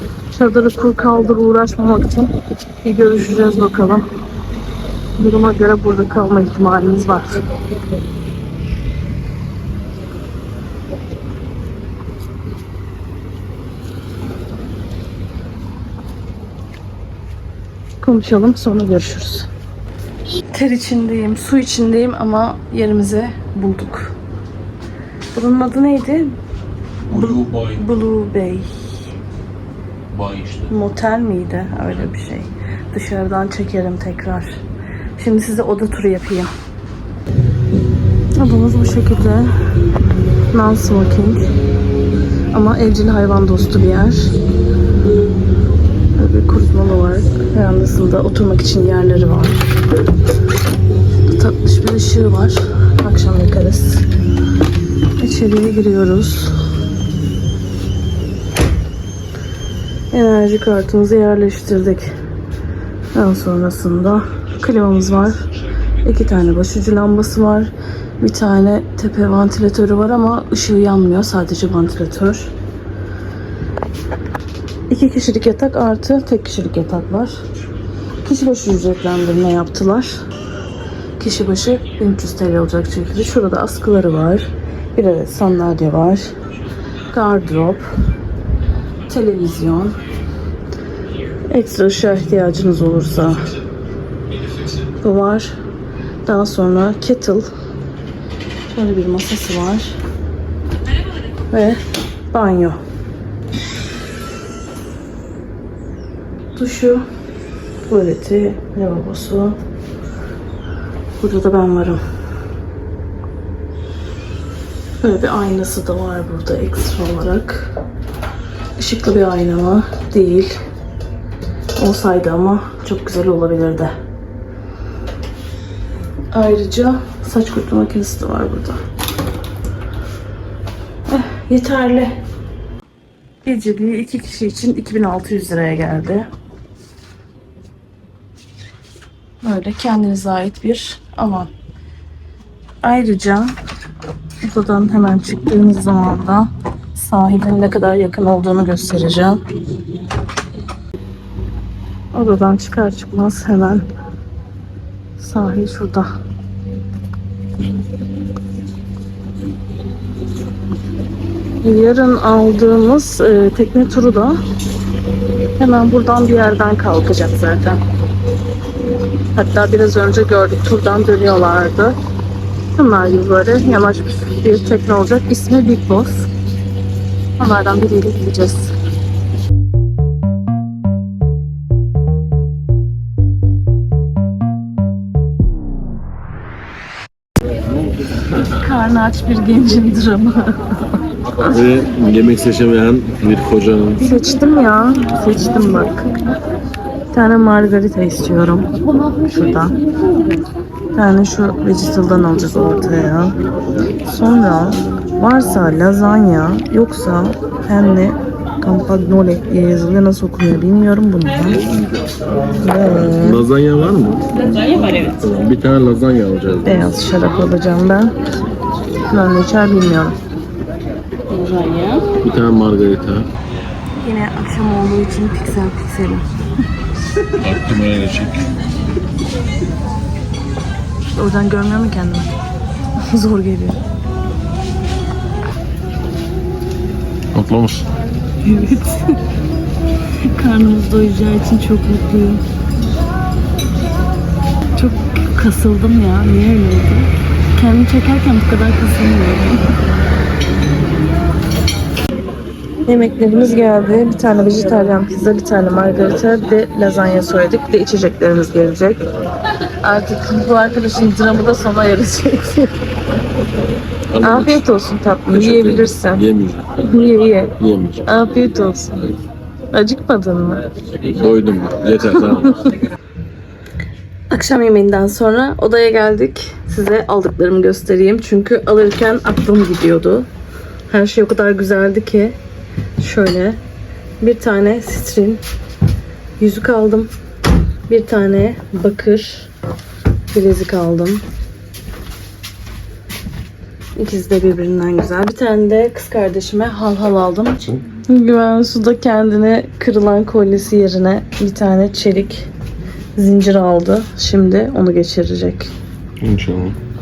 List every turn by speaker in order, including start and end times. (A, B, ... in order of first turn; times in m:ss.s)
0:00.3-0:04.1 A
0:05.2-0:07.4 A
0:18.0-0:19.5 A
0:20.5-0:24.1 A
0:25.3-0:26.4 A
0:27.1-0:27.8 B
0:27.1-0:29.0 A
0:30.1-0:30.7 B
0:30.7-0:34.6 A
0:35.2-0:36.5 A
0:38.4-0:39.5 A
0:40.5-0:41.5 A
0:42.5-0:44.4 A
0:46.2-0:49.6 A
0:51.3-0:54.1 A
0:55.2-0:56.5 A
1:00.1-1:02.1 A
1:03.1-1:05.5 A
1:06.0-1:12.5 A
1:14.9-1:17.4 A
1:18.2-1:20.2 A
1:21.2-1:26.3 A
1:27.1-1:27.9 A
1:29.1-1:30.0 A
1:31.5-1:33.5 A
1:35.0-1:35.5 A
1:36.2-1:37.5 A
1:38.7-1:40.0 A
1:41.5-1:42.8 A
1:46.6-1:47.0 A
1:47.9-1:49.6 A
1:51.2-1:52.0 A
1:55.0-1:57.7 A
1:58.8-2:00.6 A
2:01.8-2:04.0 A
2:06.3-2:08.8 A
2:11.1-2:12.2 A
2:13.4-2:16.3 A
2:19.4-2:21.5 A
2:22.8-2:23.6 A
2:24.4-2:29.4 A
2:32.1-2:33.9 A
2:35.2-2:36.1 A
2:41.6-2:44.4 A
2:45.6-2:47.8 A
2:49.3-2:52.0 A
2:52.8-2:56.3 A
2:57.4-2:58.7 A
3:08.4-3:10.8 A
3:11.4-3:14.0 B
3:14.0-3:16.1 A
3:17.1-3:19.8 A
3:20.9-3:23.4 A
3:24.0-3:31.6 A
3:31.7-3:32.2 B
3:32.6-3:33.4 A
3:32.8-3:36.9 B
3:36.6-3:38.2 A
3:39.1-3:40.2 A
3:41.3-3:42.1 A
3:42.2-3:43.3 B
3:44.0-3:46.3 A
3:47.4-3:48.5 B
3:51.1-3:52.3 A
3:53.0-3:53.8 A
3:57.3-3:57.8 B
3:58.4-3:59.2 A
4:00.2-4:02.4 A
4:04.8-4:09.7 A
4:12.9-4:19.0 A
4:19.8-4:22.7 A
4:24.1-4:24.7 B
4:24.2-4:26.2 A
4:25.3-4:26.7 B
4:26.8-4:27.6 A
4:27.6-4:28.0 B
4:28.1-4:29.1 A
4:29.7-4:30.6 A
4:31.0-4:32.6 B
4:34.3-4:40.3 A
4:40.9-4:42.4 A
4:43.0-4:43.6 A
4:44.2-4:45.4 A
4:46.4-4:47.1 A
4:47.9-4:49.5 A
4:50.3-4:51.3 A
4:54.0-5:02.5 A
5:03.2-5:05.7 A
5:06.2-5:06.8 B